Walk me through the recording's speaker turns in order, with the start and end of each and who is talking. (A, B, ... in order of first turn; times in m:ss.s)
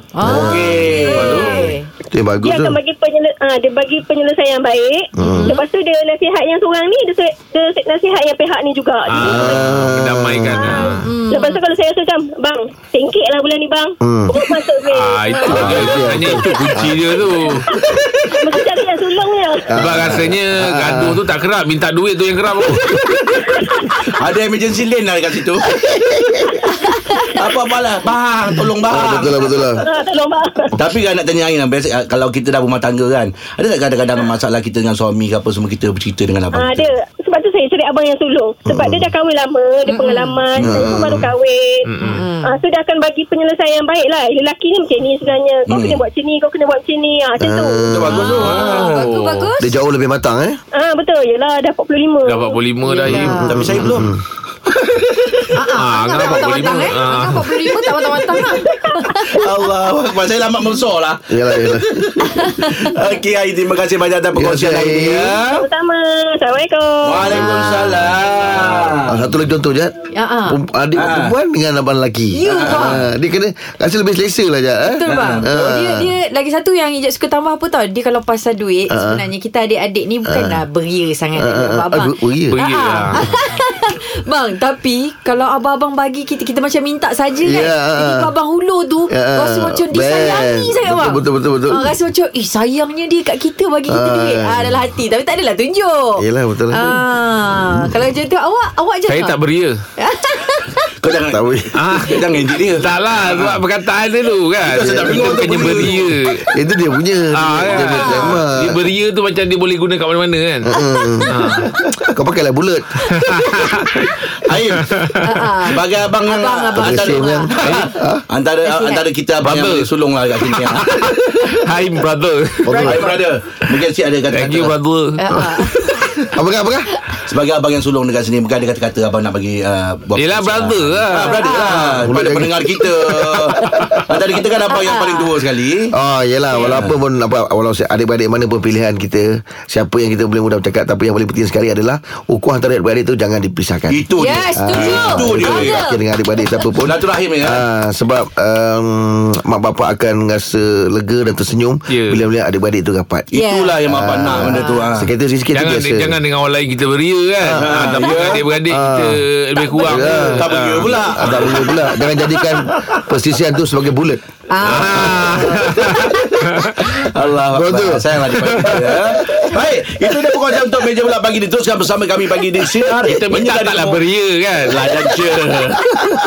0:00.2-0:01.9 A
0:00.2-0:02.8 B
0:00.2-0:01.8 C
0:01.2-0:01.5 D
0:02.4-0:09.5 E
0:05.2-0:05.6 B
0:05.2-0:05.6 A
0:09.1-0:11.1 D
0:09.2-0:10.8 B
0:10.6-0:11.6 A
0:10.6-0:16.5 E
0:14.0-0:14.4 B
0:15.0-0:17.6 D
0:15.5-0:18.0 B
0:18.4-0:19.7 E
0:19.7-0:21.2 B
0:19.8-0:22.8 D
0:22.6-0:23.9 B
0:23.5-0:24.0 E
0:24.2-0:25.7 C
0:25.7-0:26.6 B
0:27.3-0:29.5 C
0:28.8-0:29.8 B
0:29.8-0:30.8 E
0:30.8-0:36.9 C
0:36.5-0:41.9 E
0:38.7-0:39.1 B
0:39.9-0:40.5 A
0:40.6-0:41.3 B
0:41.9-0:42.2 D
0:42.0-0:42.6 A
0:42.4-0:47.9 E
0:45.7-0:46.0 C
0:47.4-0:48.5 B
0:47.9-0:49.1 C
0:48.1-0:49.7 A
0:48.4-0:49.5 D
0:49.6-0:50.6 B
0:50.8-0:52.6 E
0:52.3-0:53.5 D
0:52.8-0:53.9 A
0:53.2-0:54.2 B
0:53.5-0:54.1 C
0:54.8-0:55.5 C
0:55.6-0:59.4 A
0:55.8-0:57.6 D
0:58.3-0:59.2 E
0:59.2-1:05.6 C
1:01.3-1:02.1 B
1:02.2-1:02.8 A
1:04.4-1:05.4 B
1:05.5-1:07.3 E
1:07.0-1:09.4 C
1:07.2-1:16.1 B
1:10.1-1:10.6 A
1:11.0-1:11.4 C
1:12.3-1:13.0 A
1:12.6-1:13.0 C
1:14.8-1:39.4 A
1:15.1-1:15.6 C
1:18.9-1:19.3 B
1:20.2-1:20.6 B
1:21.4-1:22.6 B
1:22.5-1:23.3 D
1:27.4-1:28.3 B
1:29.1-1:31.9 B
1:33.9-1:34.8 B
1:36.2-1:37.0 B
1:37.6-1:37.9 B
1:39.1-1:39.8 D
1:40.0-1:40.9 A
1:41.0-1:43.6 C
1:41.3-1:42.0 B
1:41.8-1:42.2 D
1:42.8-1:46.4 D
1:44.6-1:46.1 C
1:44.8-1:48.8 B
1:47.4-1:50.7 D
1:48.0-1:48.4 C
1:50.7-1:53.7 B
1:51.3-1:51.7 D
1:53.1-1:54.1 D
1:54.4-1:54.9 C
1:55.2-1:57.5 A
1:55.6-2:01.6 C
1:56.8-1:58.2 B
1:58.6-1:59.0 A
1:59.4-2:03.0 D
2:02.7-2:03.2 B
2:02.7-2:03.2 A
2:02.8-2:04.8 C
2:04.3-2:05.4 D
2:05.2-2:06.1 A
2:06.3-2:07.0 B
2:07.3-2:16.0 C
2:10.2-2:11.7 D
2:11.1-2:12.0 A
2:11.8-2:14.2 B
2:14.7-2:15.4 A
2:16.0-2:24.0 B
2:16.5-2:17.0 C
2:23.9-2:25.8 C
2:24.2-2:26.7 A
2:24.5-2:33.3 B
2:26.8-2:27.6 C
2:31.9-2:32.2 D
2:33.3-2:35.1 C
2:33.3-2:33.8 A
2:33.8-2:36.2 B
2:34.3-2:34.8 A
2:35.5-2:41.6 D
2:37.4-2:38.0 B
2:37.6-2:38.5 C
2:38.7-2:39.2 B
2:39.8-2:45.8 B
2:40.2-2:43.1 C
2:44.5-2:45.8 A
2:44.7-2:46.9 D
2:46.9-2:54.0 C
2:47.5-2:48.0 B
2:48.4-2:48.8 D
2:48.6-2:49.5 B
2:53.1-2:55.0 D
2:54.6-2:56.0 C